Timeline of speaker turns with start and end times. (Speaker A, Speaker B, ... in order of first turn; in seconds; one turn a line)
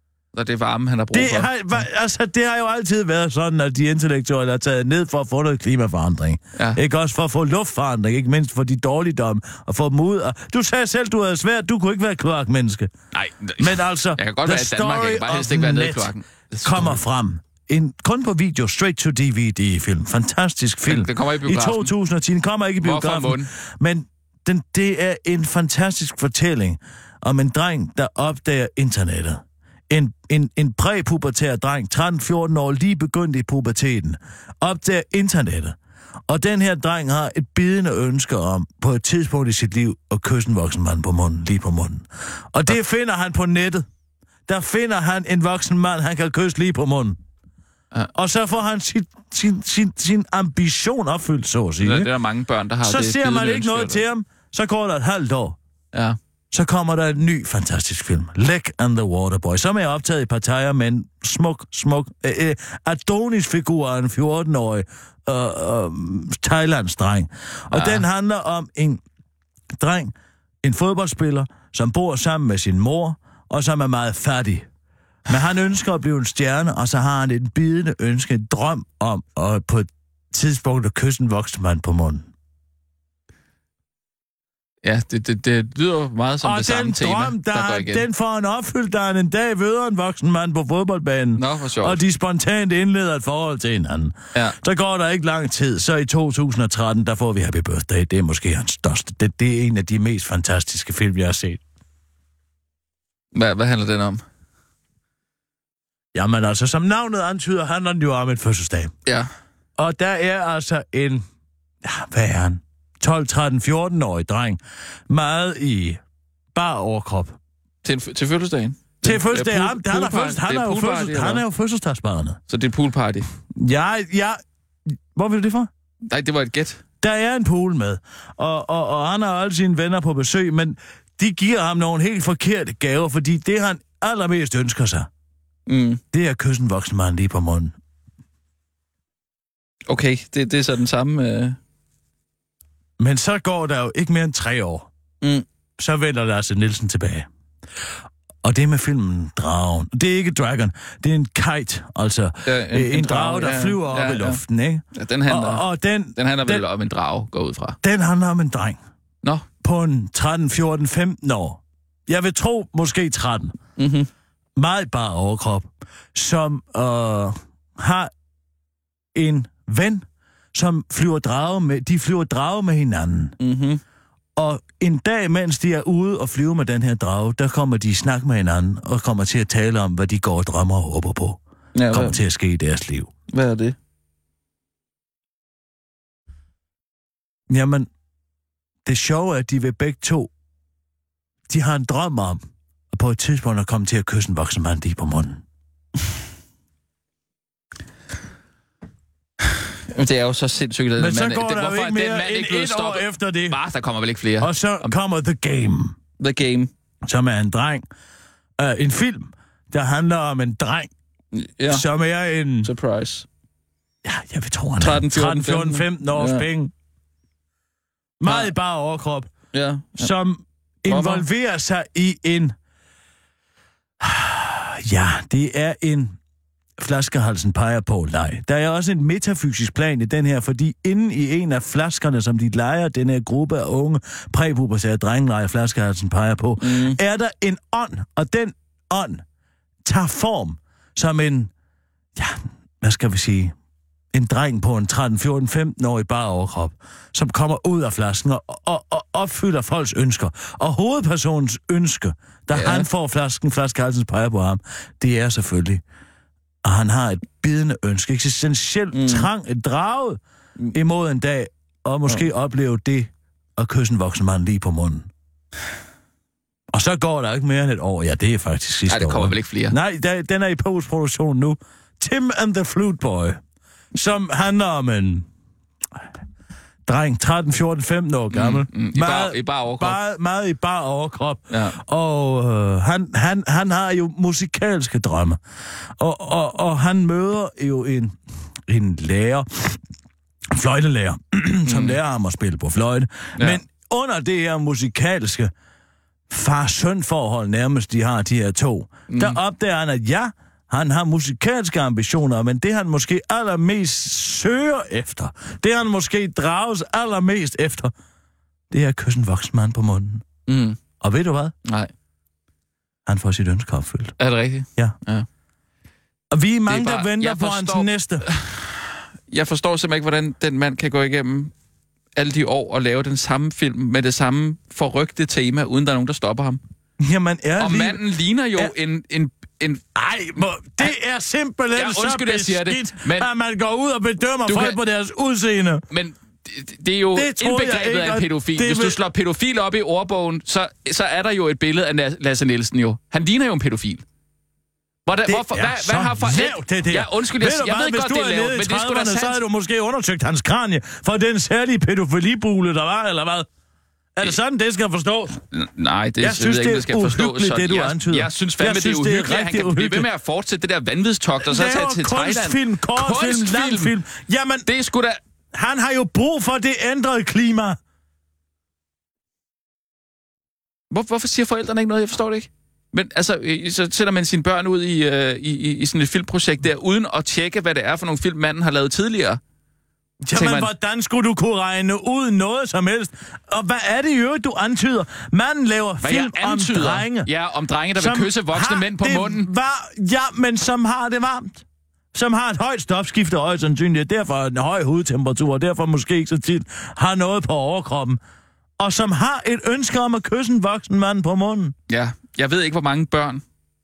Speaker A: 0.3-1.8
Speaker B: 1.1-12.9
Speaker A: 13.1-17.0
Speaker B: 13.6-16.1
Speaker B: 16.6-35.8
Speaker A: 20.9-21.9
Speaker A: 22.8-23.5
Speaker B: 36.3-43.9
Speaker B: 44.5-47.2
Speaker B: 48.1-52.1
Speaker A: 51.8-54.0
Speaker B: 52.8-55.6
Speaker B: 56.5-69.0
Speaker A: 67.7-68.0
Speaker B: 69.8-74.7
Speaker B: 75.3-82.3
Speaker A: 84.8-88.1
Speaker B: 86.4-101.6
Speaker A: 91.4-92.0
Speaker A: 103.3-104.2
Speaker B: 106.1-108.9
Speaker B: 109.8-111.2
Speaker B: 111.8-116.0
Speaker B: 116.5-117.4
Speaker A: 117.8-121.4
Speaker B: 119.0-122.4
Speaker A: 122.5-123.3
Speaker B: 123.5-124.4
Speaker B: 125.1-125.7
Speaker A: 126.1-126.8
Speaker B: 127.0-135.1
Speaker A: 135.7-136.0
Speaker B: 136.1-137.8
Speaker A: 139.9-141.6
Speaker B: 143.0-144.9
Speaker B: 145.8-147.3
Speaker B: 148.4-156.7
Speaker A: 152.4-154.4
Speaker A: 154.9-157.8
Speaker B: 157.8-158.8
Speaker B: 159.6-163.6
Speaker A: 163.8-164.1
Speaker B: 164.6-168.1
Speaker B: 169.2-173.4
Speaker A: 173.4-173.8
Speaker B: 174.4-183.1
Speaker A: 181.8-182.2
Speaker A: 183.3-183.8
Speaker B: 187.5-187.9
Speaker B: 188.8-190.3
Speaker B: 191.5-195.4
Speaker A: 199.9-204.9
Speaker B: 201.0-203.6
Speaker B: 204.4-206.0
Speaker A: 206.2-206.7
Speaker B: 207.1-207.9
Speaker B: 208.6-210.9
Speaker A: 211.3-211.8
Speaker B: 211.7-212.7
Speaker A: 212.6-213.3
Speaker B: 214.0-216.7
Speaker A: 214.8-216.5
Speaker B: 218.2-219.3
Speaker A: 218.3-218.5
Speaker A: 219.5-220.1
Speaker B: 219.9-222.6
Speaker A: 220.9-221.2
Speaker B: 224.0-226.2
Speaker B: 226.8-239.2
Speaker A: 236.6-237.0
Speaker B: 239.8-241.5
Speaker B: 242.2-243.5
Speaker B: 244.1-255.8
Speaker A: 252.5-252.9
Speaker B: 256.6-260.2
Speaker A: 258.9-259.3
Speaker B: 260.7-265.1
Speaker B: 266.7-273.4
Speaker A: 268.9-269.8
Speaker B: 273.9-275.3
Speaker B: 276.9-285.4
Speaker A: 278.3-280.0
Speaker A: 281.5-281.8
Speaker B: 286.0-289.8
Speaker B: 290.5-295.5
Speaker A: 291.7-292.0
Speaker B: 296.3-307.9
Speaker A: 299.1-299.4
Speaker B: 308.7-310.2
Speaker A: 310.5-310.8
Speaker B: 311.0-311.6
Speaker A: 311.6-311.9
Speaker B: 313.1-314.1
Speaker A: 314.2-315.3
Speaker B: 316.3-318.3
Speaker A: 316.7-321.5
Speaker A: 322.2-326.6
Speaker B: 327.0-328.0
Speaker A: 327.6-329.8
Speaker B: 329.9-335.8
Speaker A: 331.8-333.3
Speaker A: 334.5-334.8
Speaker A: 335.9-344.0
Speaker B: 337.1-339.0
Speaker A: 345.1-349.4
Speaker B: 345.3-353.5
Speaker B: 354.2-355.4
Speaker A: 355.5-363.9
Speaker B: 356.2-360.1
Speaker B: 361.4-364.7
Speaker A: 364.7-365.2
Speaker B: 365.5-367.8
Speaker A: 370.9-379.4
Speaker B: 380.2-387.3
Speaker A: 380.3-380.7
Speaker A: 386.0-389.5
Speaker B: 388.0-398.2
Speaker B: 398.8-401.8
Speaker A: 401.9-403.4